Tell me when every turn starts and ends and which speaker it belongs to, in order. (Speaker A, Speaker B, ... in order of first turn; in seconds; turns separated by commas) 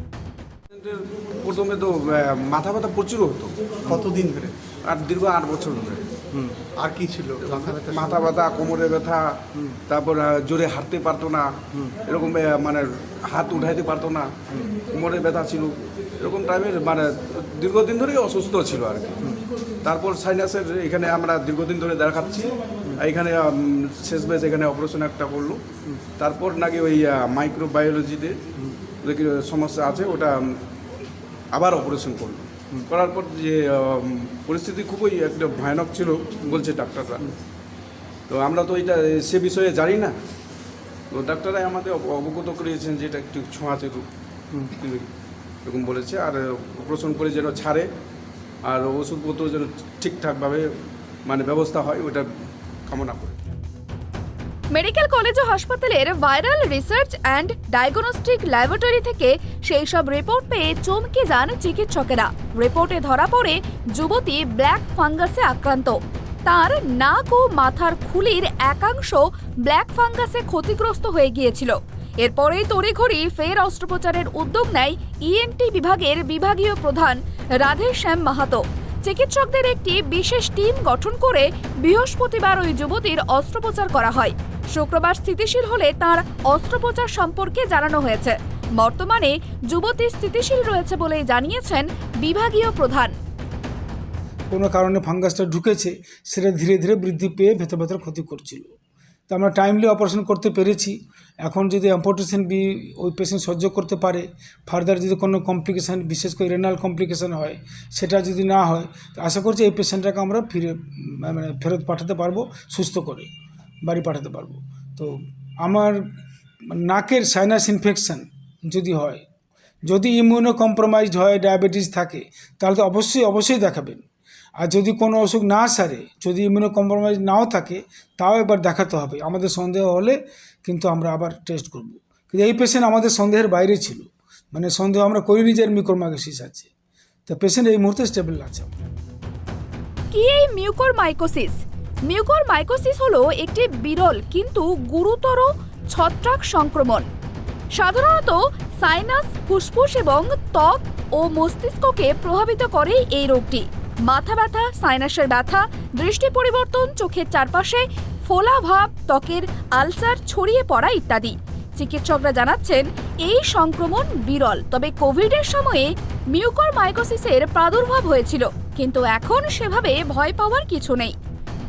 Speaker A: 0.7-3.7, Speaker B: 3.9-4.5, Speaker A: 4.8-6.0, Speaker B: 6.5-8.1, Speaker A: 7.4-11.5, Speaker A: 12.0-14.4, Speaker A: 14.9-19.2, Speaker A: 19.8-25.6, Speaker A: 26.2-28.4, Speaker A: 29.0-30.6, Speaker A: 31.5-37.3, Speaker A: 38.3-40.1, Speaker A: 41.1-44.0, Speaker A: 44.6-45.1, Speaker A: 45.6-47.9, Speaker A: 48.6-50.6, Speaker A: 51.3-52.3, Speaker A: 52.9-53.4, Speaker C: 54.7-93.2, Speaker D: 94.5-98.7, Speaker D: 99.3-113.3, Speaker D: 113.8-116.1, Speaker D: 116.7-119.2, Speaker D: 119.9-124.0, Speaker D: 124.6-136.7, Speaker D: 137.3-138.7, Speaker C: 140.1-147.1, Speaker C: 147.7-171.2